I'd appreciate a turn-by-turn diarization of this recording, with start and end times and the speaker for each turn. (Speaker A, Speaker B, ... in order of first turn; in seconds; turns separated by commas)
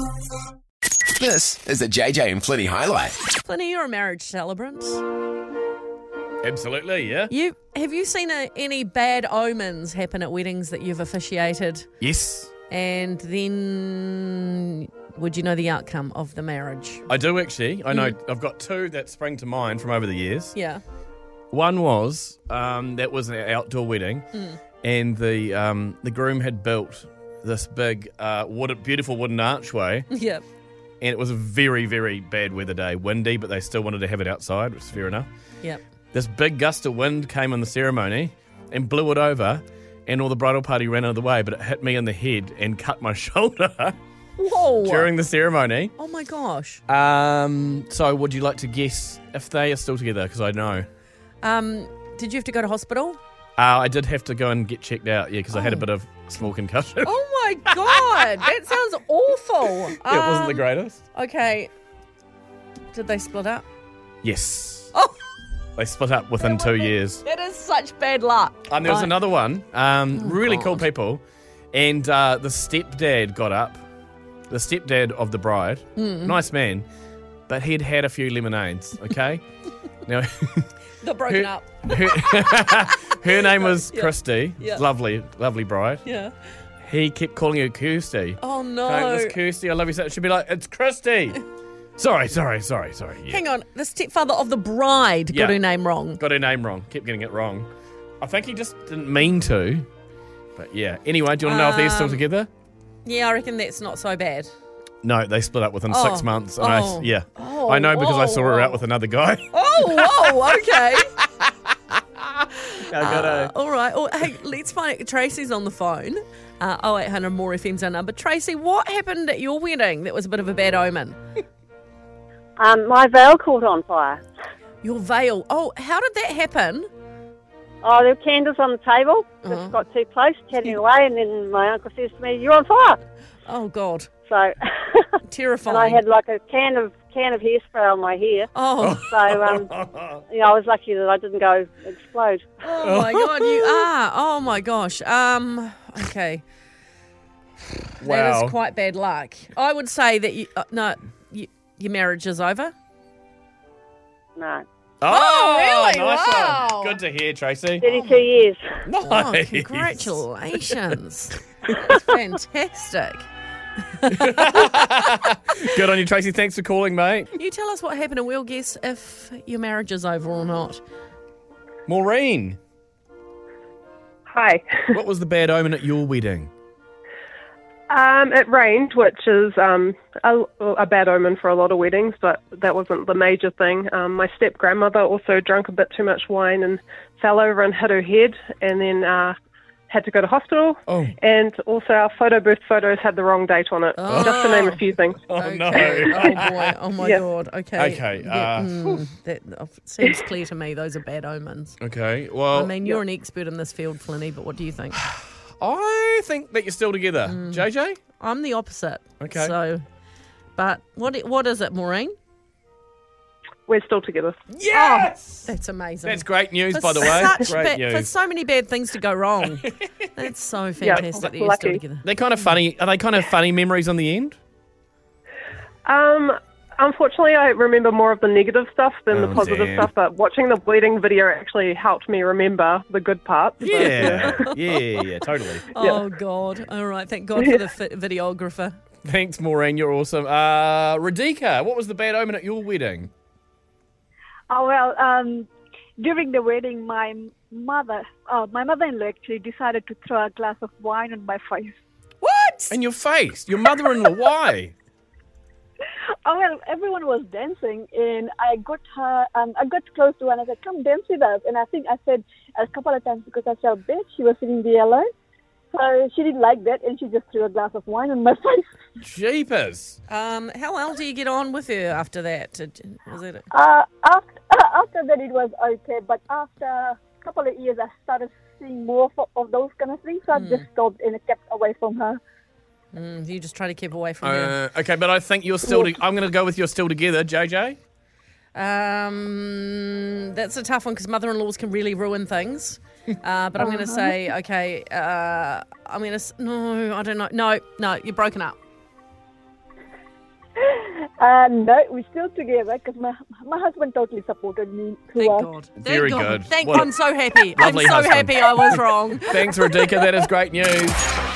Speaker A: 1.2-3.2, Speaker B: 3.4-5.0, Speaker C: 6.4-7.3, Speaker B: 7.3-11.9, Speaker C: 12.0-12.5, Speaker B: 12.7-17.1, Speaker C: 17.1-20.6, Speaker B: 17.9-18.1, Speaker B: 20.5-20.8, Speaker C: 21.5-24.3, Speaker C: 24.8-30.1, Speaker B: 30.1-30.4, Speaker C: 31.0-35.3, Speaker C: 36.1-44.0, Speaker B: 44.4-45.1, Speaker C: 44.8-45.9, Speaker B: 46.0-46.8, Speaker C: 46.9-50.9, Speaker B: 51.4-53.2, Speaker C: 53.6-57.1, Speaker B: 55.5-55.9, Speaker B: 57.0-61.7, Speaker C: 57.7-58.4, Speaker C: 60.0-61.0, Speaker B: 62.9-63.6, Speaker C: 64.2-64.9, Speaker C: 65.8-67.2, Speaker B: 66.4-69.2, Speaker C: 68.7-71.2, Speaker B: 70.1-70.8, Speaker C: 71.7-73.8, Speaker C: 74.5-76.8, Speaker B: 76.0-76.4, Speaker C: 77.5-79.4, Speaker C: 80.0-80.7, Speaker B: 81.0-84.8, Speaker C: 81.3-86.0, Speaker B: 86.0-86.3, Speaker C: 86.8-91.4, Speaker B: 88.4-89.4, Speaker C: 92.0-93.4, Speaker B: 93.3-96.2, Speaker C: 95.3-97.7, Speaker C: 98.2-99.9, Speaker C: 100.5-102.5, Speaker B: 101.4-102.2, Speaker B: 103.0-104.5, Speaker C: 105.0-111.2, Speaker B: 105.9-108.8, Speaker B: 109.5-111.1, Speaker C: 111.9-112.2, Speaker C: 112.8-113.5, Speaker B: 112.9-121.2, Speaker D: 122.6-124.2, Speaker B: 124.8-126.9, Speaker D: 127.8-133.0, Speaker B: 129.4-129.7, Speaker B: 133.4-134.1, Speaker D: 134.3-135.1, Speaker B: 135.2-136.0, Speaker D: 135.7-138.5, Speaker B: 138.5-139.0, Speaker C: 138.8-140.2, Speaker D: 139.1-139.7, Speaker D: 140.3-142.5, Speaker B: 142.6-146.4, Speaker C: 142.8-143.9, Speaker C: 148.0-148.6, Speaker B: 148.0-152.7, Speaker D: 154.4-154.6, Speaker C: 155.0-157.8, Speaker B: 155.0-157.0, Speaker D: 157.8-158.6, Speaker B: 157.9-158.3, Speaker C: 158.9-160.8, Speaker B: 159.0-163.3, Speaker B: 164.0-164.9, Speaker C: 164.1-167.3, Speaker B: 167.3-170.8, Speaker C: 171.8-172.6, Speaker E: 174.3-174.9, Speaker C: 174.9-176.5, Speaker E: 177.9-189.3, Speaker E: 189.9-195.2, Speaker C: 190.9-191.1, Speaker B: 193.9-201.8, Speaker C: 194.1-194.3, Speaker C: 195.3-196.8, Speaker E: 195.7-196.1, Speaker C: 197.7-199.1, Speaker C: 201.8-202.7, Speaker B: 202.5-205.0, Speaker C: 205.0-208.0, Speaker B: 207.2-207.7, Speaker B: 208.2-209.8, Speaker C: 209.2-209.6, Speaker B: 210.6-212.1, Speaker E: 213.7-214.3, Speaker C: 214.5-215.5, Speaker B: 214.7-222.1, Speaker C: 216.0-218.1, Speaker E: 220.8-221.8, Speaker C: 222.0-224.4, Speaker E: 225.8-234.7, Speaker C: 229.1-229.9, Speaker C: 233.6-235.7, Speaker B: 233.7-234.5, Speaker B: 235.7-238.8, Speaker C: 239.0-243.1, Speaker F: 244.5-245.5, Speaker F: 246.0-251.8, Speaker B: 252.2-252.8, Speaker C: 252.7-254.7, Speaker F: 256.2-265.1, Speaker F: 265.7-268.6, Speaker C: 269.0-270.0, Speaker B: 270.1-273.5, Speaker F: 273.5-282.2, Speaker B: 280.3-280.6, Speaker B: 282.9-284.6, Speaker C: 284.2-287.8, Speaker F: 285.6-286.0, Speaker B: 288.5-298.6, Speaker F: 293.6-294.1, Speaker F: 300.6-305.5, Speaker B: 305.1-309.6, Speaker C: 305.8-306.9, Speaker C: 307.5-311.0